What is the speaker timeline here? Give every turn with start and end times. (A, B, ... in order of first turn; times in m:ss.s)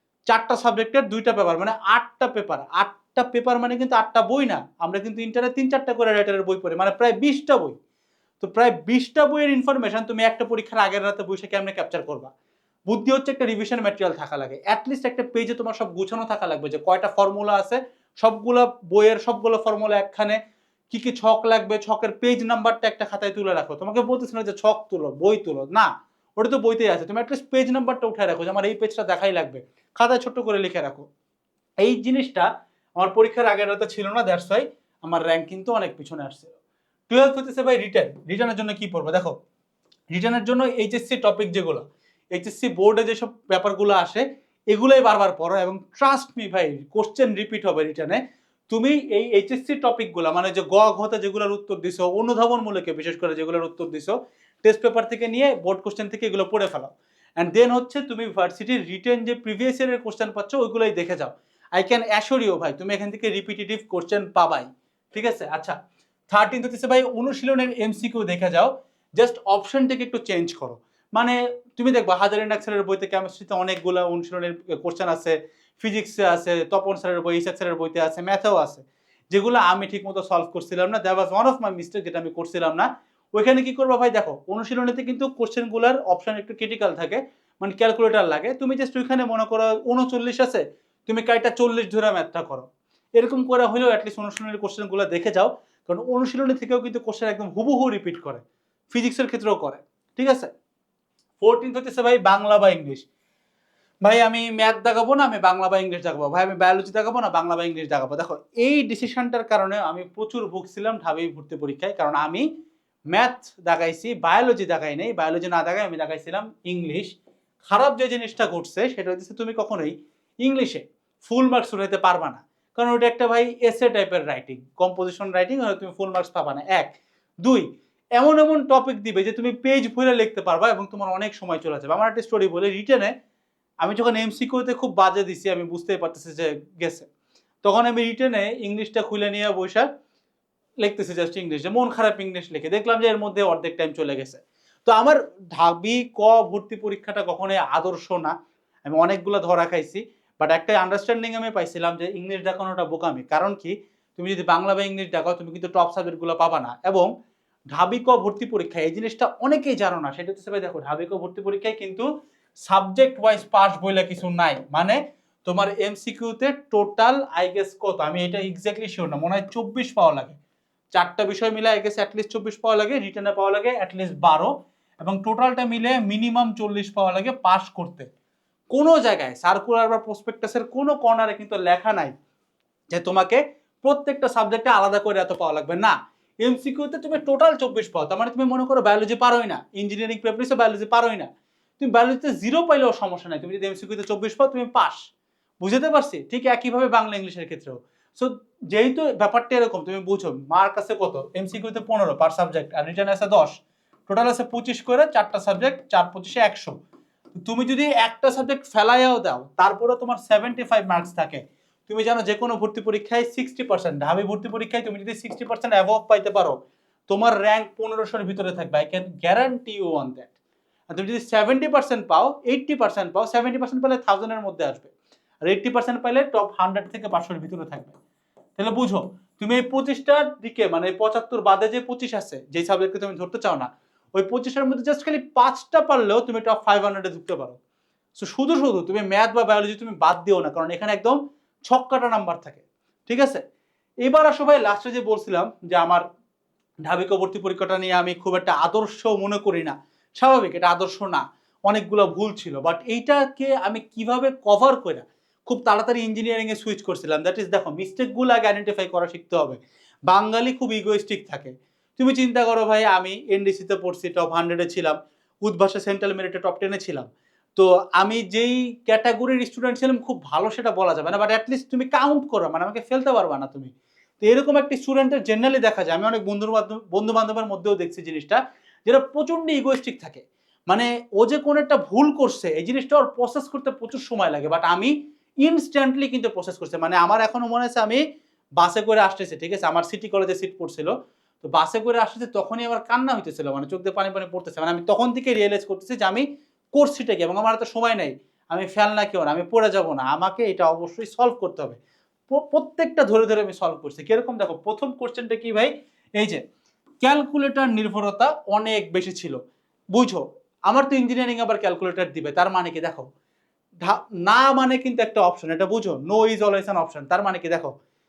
0:00.3-0:07.8 A
0:08.4-0:12.3 A
0:12.9-0:20.4 A
0:20.9-0:31.0 A
0:31.8-0:32.5 A
0:33.0-0:36.5 A
0:37.1-0:39.4 A
0:40.1-1:05.8 A
1:06.3-1:40.5 A
1:41.4-1:43.0 A
1:44.0-1:52.4 A
1:53.1-2:13.1 A
2:13.8-2:17.1 A
2:17.6-2:19.8 A
2:20.8-2:28.3 A
2:28.8-2:37.1 A
2:37.7-2:42.0 A
2:42.6-2:50.4 A
2:50.9-2:58.1 A
2:58.7-3:02.1 A
3:02.9-3:15.1 A
3:15.6-3:26.8 A
3:27.3-3:40.3 A
3:40.9-3:44.9 A
3:45.4-3:48.0 A
3:48.6-3:57.6 A
3:58.1-4:03.4 A
4:04.0-4:06.0 A
4:06.8-4:48.0 A
4:48.6-5:06.4 A
5:07.0-5:09.4 A
5:09.9-5:13.1 A
5:13.8-5:17.7 A